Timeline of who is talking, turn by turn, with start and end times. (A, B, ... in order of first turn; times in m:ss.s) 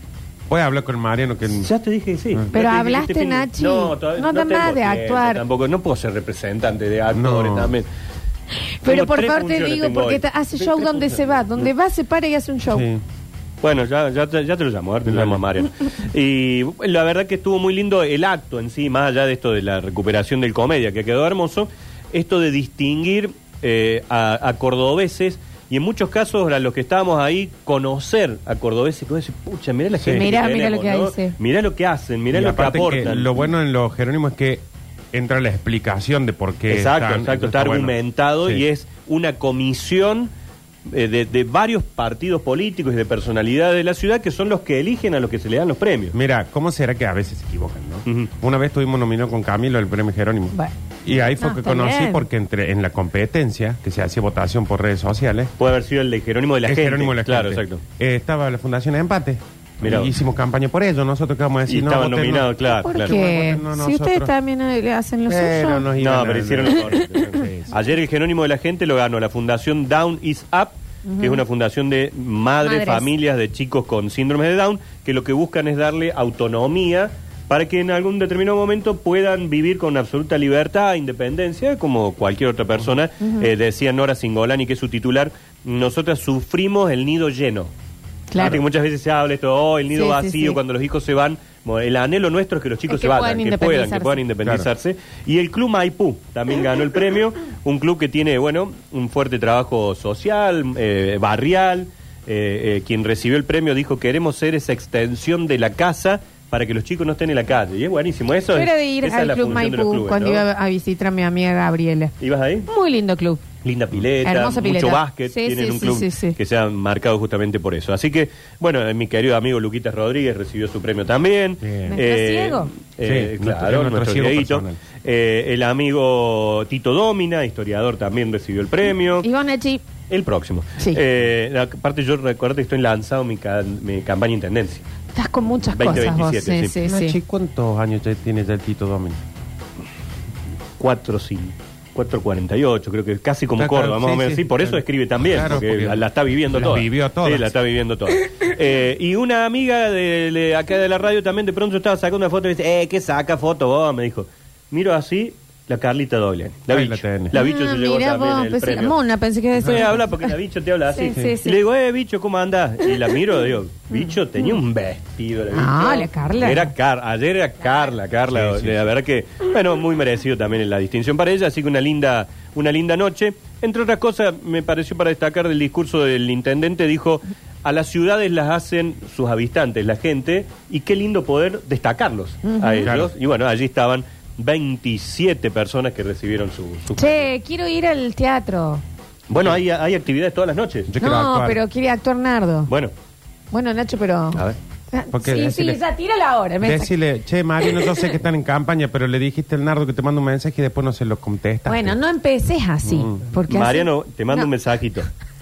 0:00.5-0:01.7 A
0:01.5-0:07.9 B
0:02.5-0:05.4 C
0:07.1-0:07.8 A
0:08.8-0:12.9 C
0:08.8-0:11.7 B
0:12.7-0:13.0 A
0:13.6-0:33.5 B
0:15.1-0:15.4 A
0:30.0-0:30.2 A
0:30.1-0:31.4 C
0:32.3-0:38.6 A
0:36.7-0:40.3 B
0:40.9-0:46.2 B
0:46.1-0:55.5 A
0:48.1-0:48.3 B
0:51.4-0:52.3 C
0:55.6-0:57.8 B
0:56.6-1:04.3 A
0:59.8-1:00.1 B
1:01.7-1:03.2 B
1:02.7-1:05.9 C
1:05.3-1:07.8 A
1:06.0-1:27.7 B
1:11.1-1:11.4 C
1:12.6-1:13.1 C
1:23.2-1:23.5 C
1:28.3-1:28.6 C
1:28.4-1:50.4 B
1:29.9-1:30.6 C
1:32.9-1:34.2 C
1:48.5-1:52.1 C
1:52.2-1:52.7 B
1:52.7-1:53.4 C
1:53.6-2:09.3 B
1:54.2-1:56.4 C
2:01.6-2:02.0 A
2:01.9-2:02.7 C
2:03.0-2:04.8 A
2:09.2-2:09.8 C
2:10.1-2:14.8 B
2:15.2-2:17.2 C
2:15.7-2:16.8 B
2:16.8-2:19.2 A
2:20.8-2:39.0 B
2:23.6-2:27.5 A
2:36.7-2:37.3 A
2:37.3-2:40.3 C
2:39.6-3:07.3 B
2:40.9-2:41.6 C
2:43.9-2:44.5 C
2:45.5-2:46.7 C
2:48.3-2:48.9 A
3:02.4-3:02.9 C
3:02.8-3:03.1 A
3:07.0-3:08.8 C
3:09.3-3:10.9 B
3:10.9-3:11.6 A
3:11.0-3:12.7 C
3:13.5-3:17.0 C
3:15.1-3:15.8 A
3:16.6-3:22.0 A
3:17.6-3:18.0 C
3:21.7-3:24.5 C
3:22.8-3:23.3 A
3:23.5-3:25.1 B